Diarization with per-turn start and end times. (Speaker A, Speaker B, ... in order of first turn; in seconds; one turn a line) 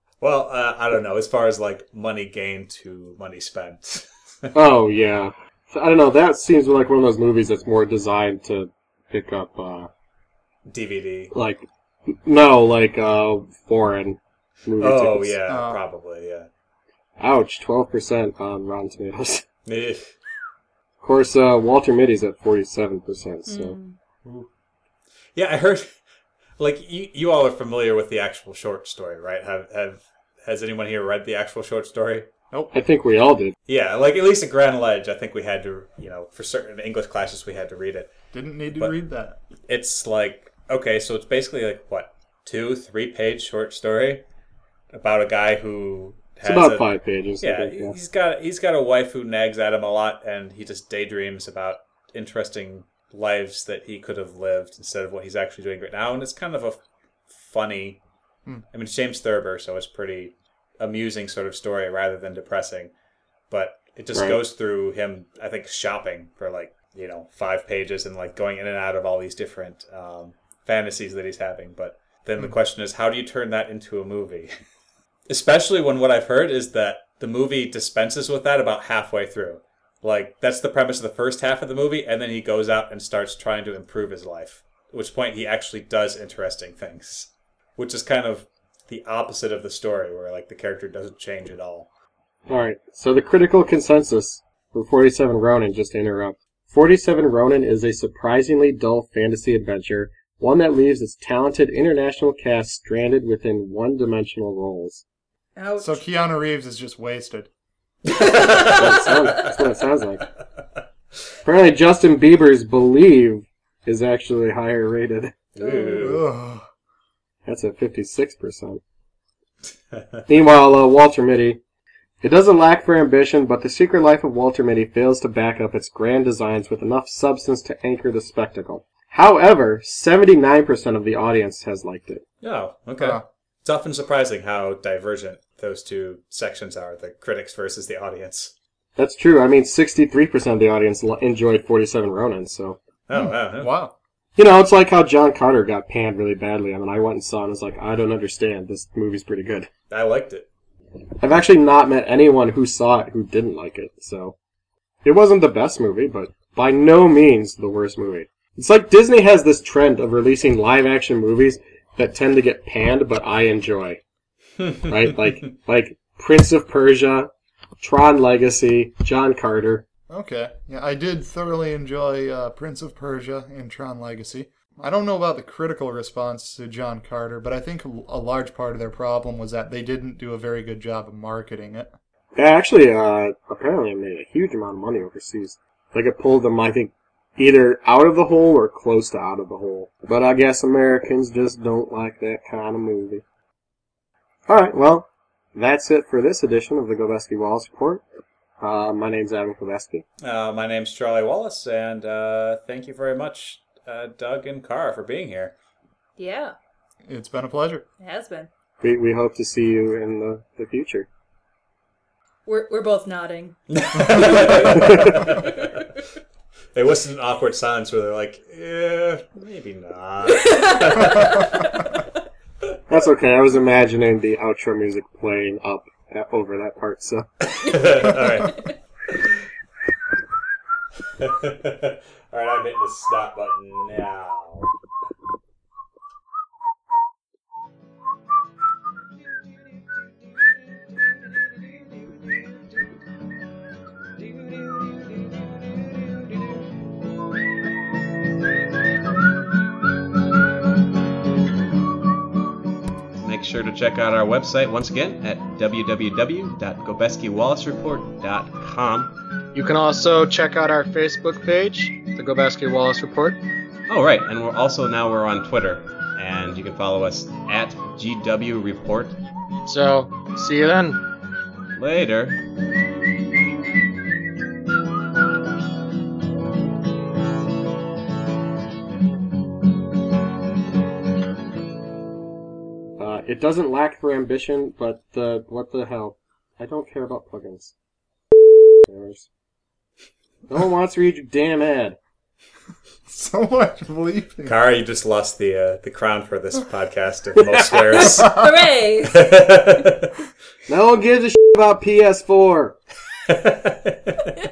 Speaker A: 0.2-4.5
Speaker B: 4.5-9.9
Speaker A: 10.7-11.3
Speaker B: 11.3-15.4
Speaker A: 14.8-16.5
Speaker C: 15.5-15.8
Speaker B: 17.2-19.4
Speaker A: 19.6-20.1
Speaker B: 21.0-23.8
Speaker D: 23.5-24.0
Speaker A: 25.3-25.9
Speaker A: 26.6-32.3
Speaker B: 32.7-33.5
Speaker A: 33.7-38.1
Speaker C: 38.3-39.4
Speaker A: 39.7-44.2
Speaker A: 44.9-46.9
Speaker B: 46.4-48.0
Speaker A: 47.4-58.0
Speaker A: 58.7-62.9
Speaker A: 63.5-74.5
Speaker B: 64.1-64.4
Speaker A: 75.3-91.9
Speaker B: 92.5-105.0
Speaker D: 105.5-106.0
Speaker C: 105.8-107.5
Speaker A: 108.1-109.1
Speaker D: 108.1-109.1
Speaker B: 108.7-110.2
Speaker B: 111.4-115.3
Speaker A: 115.5-116.2
Speaker D: 115.6-116.1
Speaker C: 115.9-116.7
Speaker B: 117.4-118.8
Speaker B: 120.3-121.6
Speaker B: 122.2-132.2
Speaker A: 132.4-138.5
Speaker B: 139.0-142.8
Speaker A: 143.1-143.8
Speaker C: 143.1-143.9
Speaker B: 144.3-149.7
Speaker A: 149.9-150.5
Speaker B: 151.2-154.3
Speaker B: 155.0-164.0
Speaker B: 164.8-169.8
Speaker C: 170.1-181.9
Speaker B: 182.3-193.2
Speaker B: 194.5-198.0
Speaker B: 198.6-200.0
Speaker A: 200.2-205.5
Speaker D: 206.2-206.5
Speaker C: 207.1-207.8
Speaker D: 208.0-208.5
Speaker B: 208.8-211.1
Speaker D: 212.4-215.3
Speaker A: 213.7-215.9
Speaker B: 214.8-215.2
Speaker A: 216.7-221.6
Speaker D: 220.2-222.1
Speaker B: 222.9-227.3
Speaker A: 227.4-228.6
Speaker D: 227.6-228.7
Speaker A: 231.2-234.7
Speaker A: 253.2-259.1
Speaker E: 259.5-263.4
Speaker A: 263.9-269.1
Speaker E: 269.6-271.1
Speaker A: 271.8-272.4
Speaker B: 283.0-287.7
Speaker B: 288.8-289.3
Speaker B: 290.5-292.0
Speaker C: 293.1-294.6
Speaker A: 294.4-298.4
Speaker D: 297.9-299.8
Speaker A: 299.1-300.1
Speaker B: 300.7-302.8
Speaker A: 303.2-304.3